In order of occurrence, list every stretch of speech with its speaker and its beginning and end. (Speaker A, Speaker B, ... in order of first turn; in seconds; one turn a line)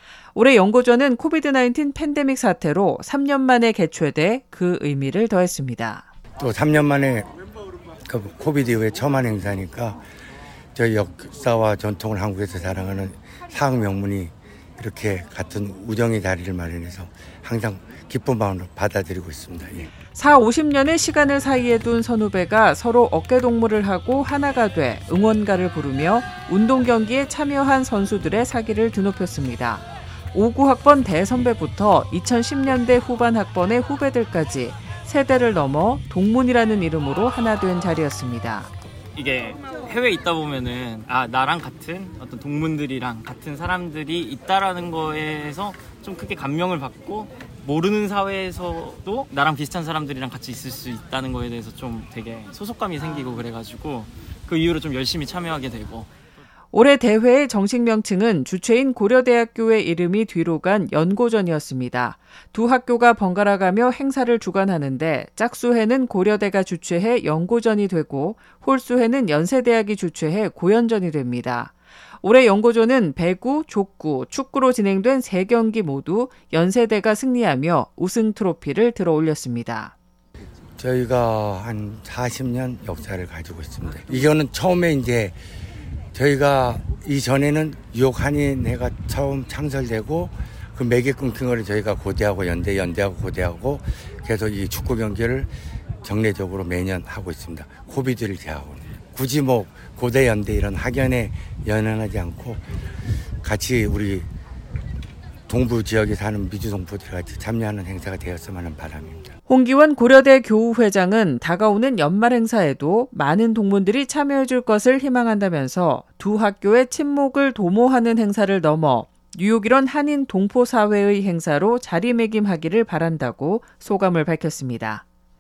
Speaker A: 0.3-6.1
Speaker B: 6.4-7.3
Speaker B: 8.1-10.0
Speaker B: 10.8-19.9
Speaker A: 20.1-38.7
Speaker C: 39.1-56.1
Speaker A: 56.7-80.0
Speaker B: 80.8-85.4
Speaker B: 86.1-95.5
Speaker B: 96.0-102.6
Speaker B: 103.4-104.3
Speaker B: 105.5-109.3
Speaker A: 109.5-125.0